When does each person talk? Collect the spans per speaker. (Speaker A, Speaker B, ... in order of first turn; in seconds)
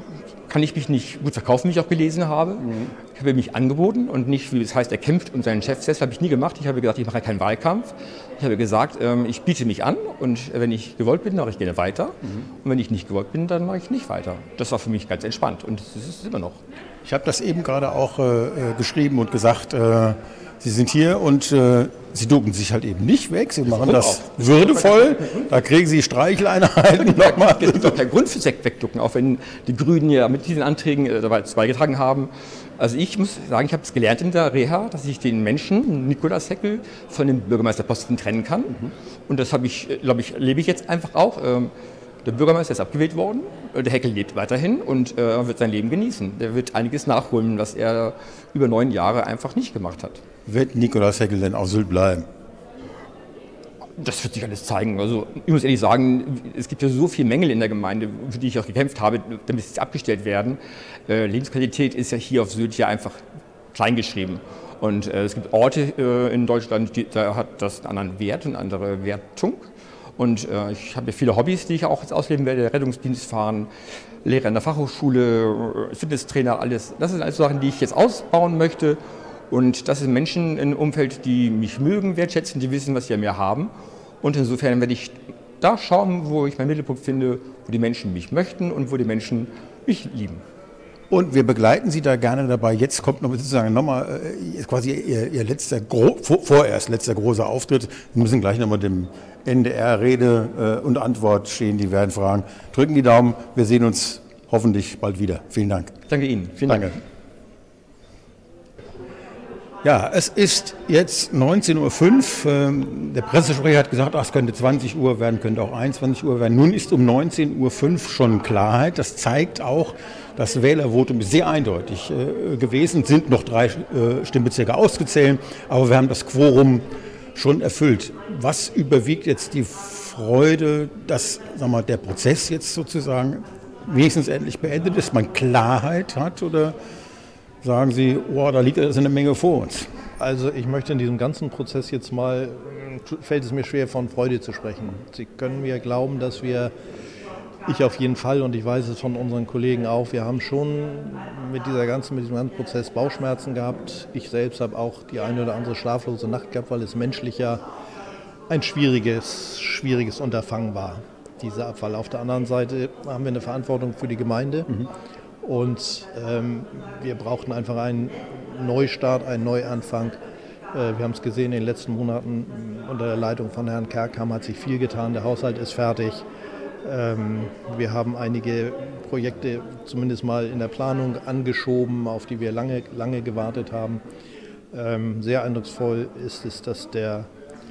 Speaker A: 0.5-16.6, 23.8-25.4, 27.1-38.8, 39.3-41.7, 42.2-50.2, 54.0-73.7, 74.2-90.5, 106.1-106.8
Speaker B: 2.6-2.9, 12.2-12.5, 17.0-28.0, 50.5-52.3, 91.1-105.9, 106.6-107.0, 109.8-136.8, 137.6-139.9
Speaker C: 140.2-146.7, 147.7-157.6, 158.5-164.7, 165.4-170.2, 170.7-176.2, 176.8-184.0, 184.7-187.3